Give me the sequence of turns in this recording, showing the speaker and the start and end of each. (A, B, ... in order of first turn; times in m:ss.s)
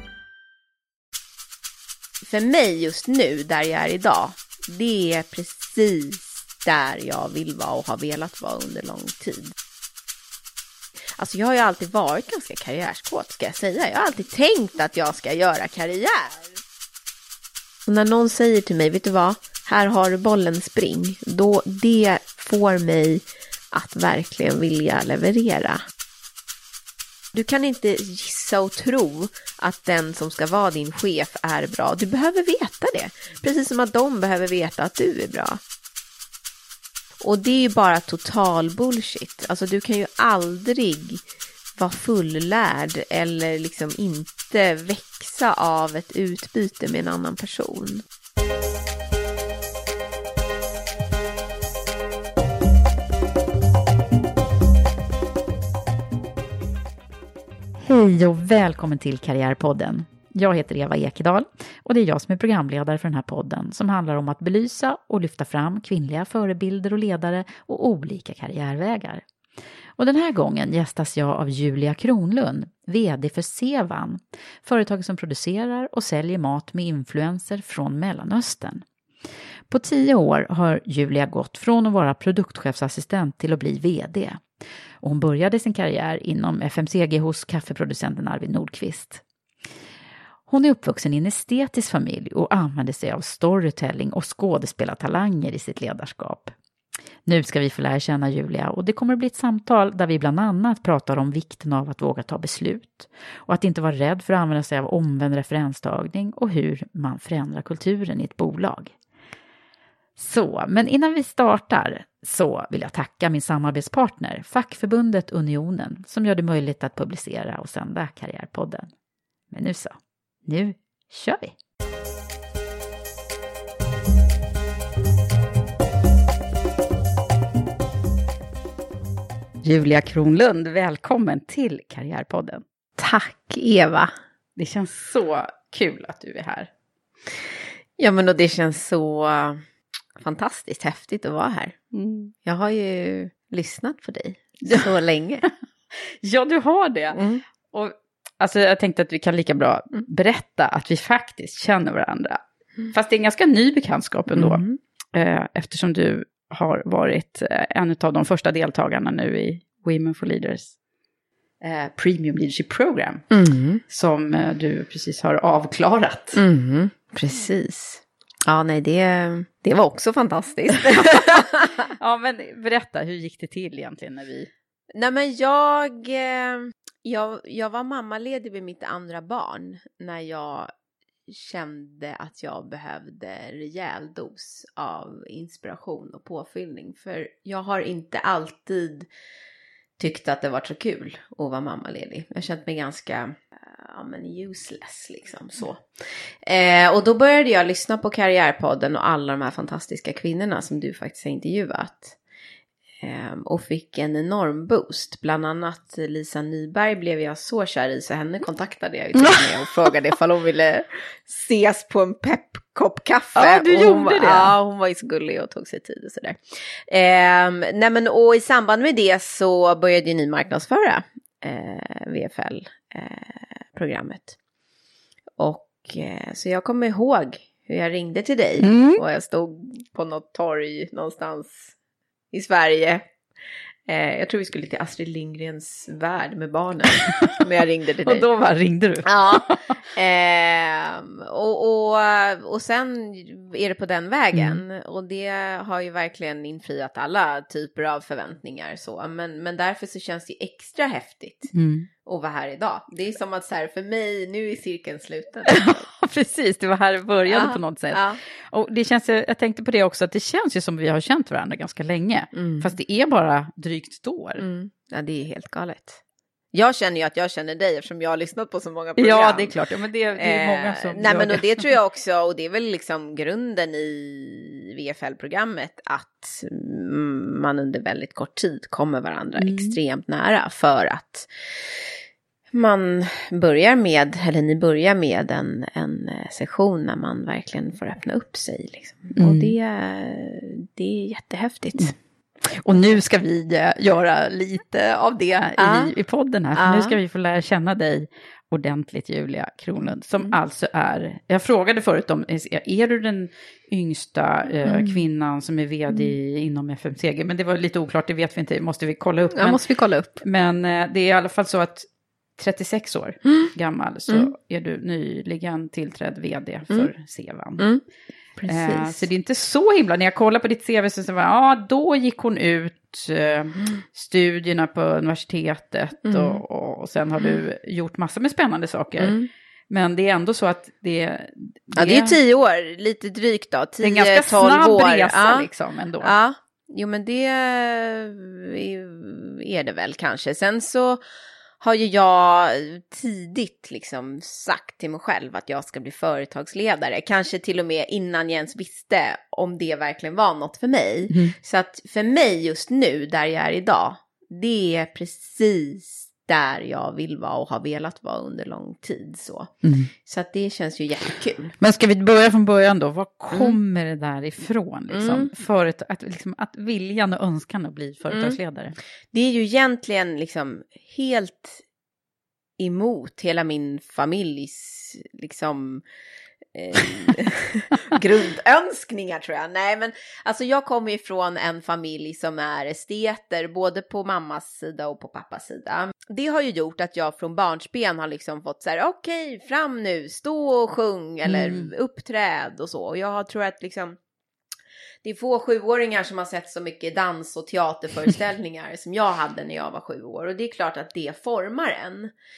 0:02.2-0:09.5 A
0:11.2-0:16.5 A
0:17.9-0:25.8 A
0:27.3-0:35.6 A
0:37.2-0:41.2 A
0:41.8-0:48.0 A
0:57.8-1:09.2 B
1:10.0-1:18.8 B
1:19.7-1:24.4 B
1:25.0-1:29.2 B
1:30.5-1:36.5 B
1:37.3-1:48.9 B
1:50.2-1:58.9 B
1:59.5-2:01.6 B
2:09.6-2:12.6 B
2:13.0-2:14.1 A
2:14.6-2:16.7 B
2:18.0-2:19.6 A
2:20.2-2:25.5 A
2:26.1-2:27.2 B
2:27.1-2:27.4 A
2:27.7-2:32.4 B
2:32.9-2:40.8 B
2:34.3-2:34.8 A
2:41.6-2:43.2 B
2:43.3-2:43.8 A
2:43.9-2:46.4 B
2:46.3-2:51.9 A
2:50.9-2:51.5 B
2:52.0-2:54.5 B
2:55.0-3:00.7 A
3:01.3-3:09.1 A
3:10.0-3:15.8 A
3:16.4-3:22.2 A
3:23.0-3:44.4 A
3:29.2-3:29.4 B
3:33.4-3:34.5 B
3:45.4-3:51.7 A
3:48.6-3:49.0 B
3:52.3-3:53.0 A
3:53.9-3:58.3 A
3:58.0-3:59.6 B
3:59.0-4:11.5 A
4:04.3-4:04.6 B
4:11.5-4:11.9 B
4:12.0-4:15.9 A
4:15.5-4:24.4 B
4:17.3-4:18.2 A
4:22.3-4:22.8 A
4:24.4-4:26.0 A
4:26.5-4:29.6 A
4:29.0-4:31.6 B
4:30.2-4:41.3 A
4:39.4-4:39.8 B
4:42.5-4:52.0 A
4:49.2-4:49.5 B
4:52.5-5:09.6 B
4:55.6-4:55.9 A
4:56.6-4:57.0 A
5:04.6-5:05.0 A
5:09.3-5:10.2 A
5:10.2-5:11.9 B
5:12.4-5:17.7 B
5:13.3-5:13.5 A
5:18.4-5:19.0 A
5:18.5-5:29.2 B
5:26.0-5:26.4 A
5:29.0-5:29.3 A
5:29.7-5:32.2 B
5:31.8-5:35.5 A
5:33.8-5:36.1 B
5:36.0-5:41.0 A
5:41.6-5:59.5 A
5:51.1-5:51.4 B
5:59.6-5:59.9 B
6:00.1-6:01.5 A
6:01.6-6:08.8 B
6:03.3-6:03.6 A
6:04.9-6:05.3 A
6:08.1-6:08.4 A
6:09.1-6:11.6 A
6:12.6-6:15.8 A
6:16.5-6:34.0 A
6:31.2-6:31.7 B
6:35.0-6:42.1 A